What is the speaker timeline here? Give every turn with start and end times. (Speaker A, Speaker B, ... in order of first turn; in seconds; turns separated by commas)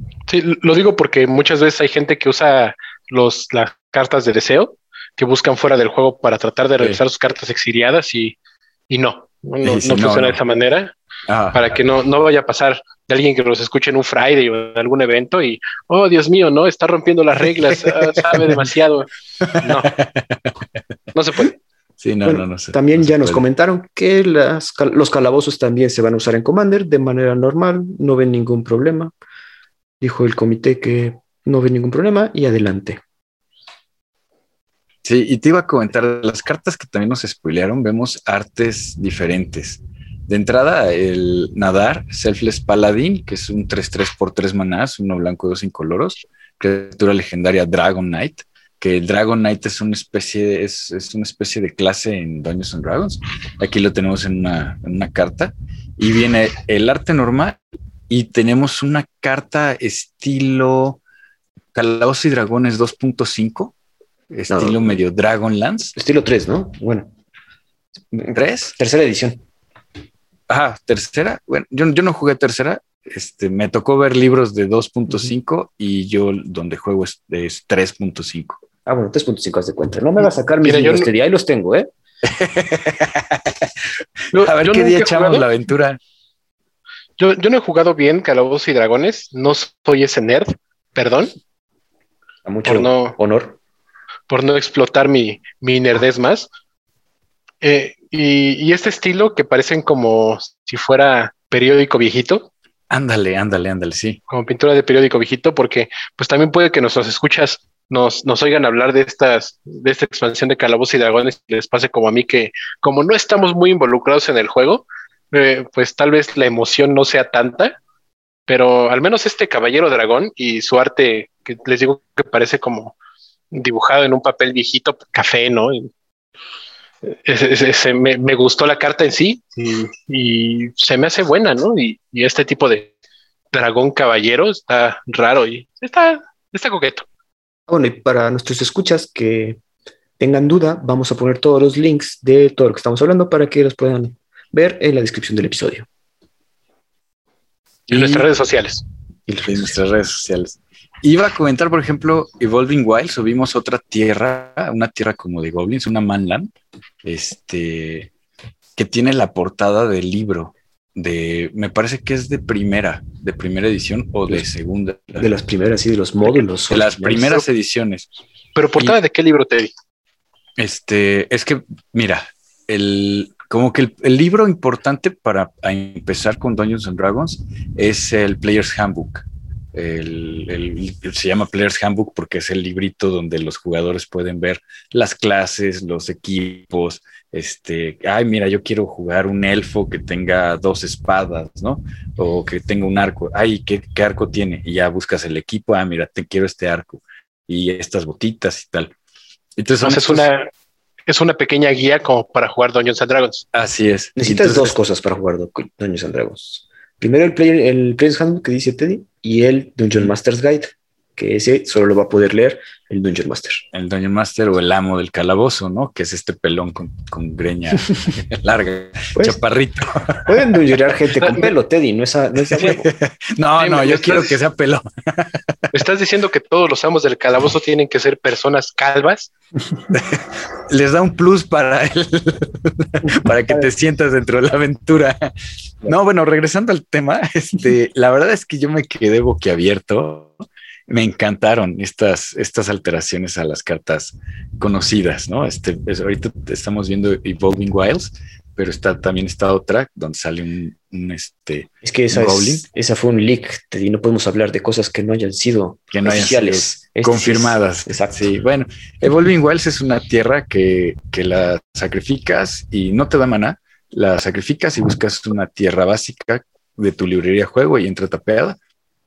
Speaker A: 0.3-8.4, Speaker A: 8.9-10.9, Speaker B: 9.6-10.4, Speaker B: 11.3-11.6, Speaker A: 11.5-19.9, Speaker B: 19.4-20.5, Speaker A: 21.1-21.6, Speaker B: 22.0-23.4, Speaker C: 22.2-29.1, Speaker C: 30.0-33.0, Speaker B: 35.0-57.6, Speaker B: 58.1-61.0, Speaker B: 61.7-63.7, Speaker B: 64.3-66.0, Speaker C: 64.5-64.8, Speaker C: 66.0-67.1, Speaker C: 68.1-69.4, Speaker B: 68.3-68.7, Speaker B: 70.5-78.6, Speaker C: 78.9-81.9, Speaker A: 80.6-81.1, Speaker B: 82.2-83.6, Speaker A: 84.3-85.4, Speaker B: 84.3-86.0, Speaker A: 87.2-91.3, Speaker C: 92.5-93.6, Speaker A: 92.7-93.2, Speaker A: 94.3-96.5, Speaker A: 97.6-102.5, Speaker B: 102.9-104.2, Speaker A: 104.3-117.8, Speaker A: 118.5-123.0, Speaker A: 123.5-125.9, Speaker A: 127.0-132.9, Speaker A: 133.5-137.1, Speaker C: 137.7-139.6, Speaker C: 140.2-145.9, Speaker B: 147.9-148.3, Speaker A: 147.9-148.8, Speaker C: 149.3-149.8, Speaker B: 149.5-156.5, Speaker B: 157.0-158.1, Speaker B: 158.8-165.3, Speaker C: 165.2-167.4, Speaker B: 166.7-168.1, Speaker A: 168.6-169.7, Speaker B: 170.6-198.9, Speaker B: 199.6-200.3, Speaker A: 199.8-200.5, Speaker A: 201.1-203.4, Speaker B: 203.5-204.8, Speaker C: 204.2-213.6, Speaker B: 213.7-220.5, Speaker C: 220.3-222.9, Speaker A: 221.2-221.5, Speaker B: 222.5-225.6, Speaker A: 223.6-224.4, Speaker A: 225.7-229.3, Speaker B: 229.9-235.3, Speaker B: 235.8-240.3, Speaker B: 240.9-252.6, Speaker C: 251.8-258.3, Speaker B: 255.9-268.6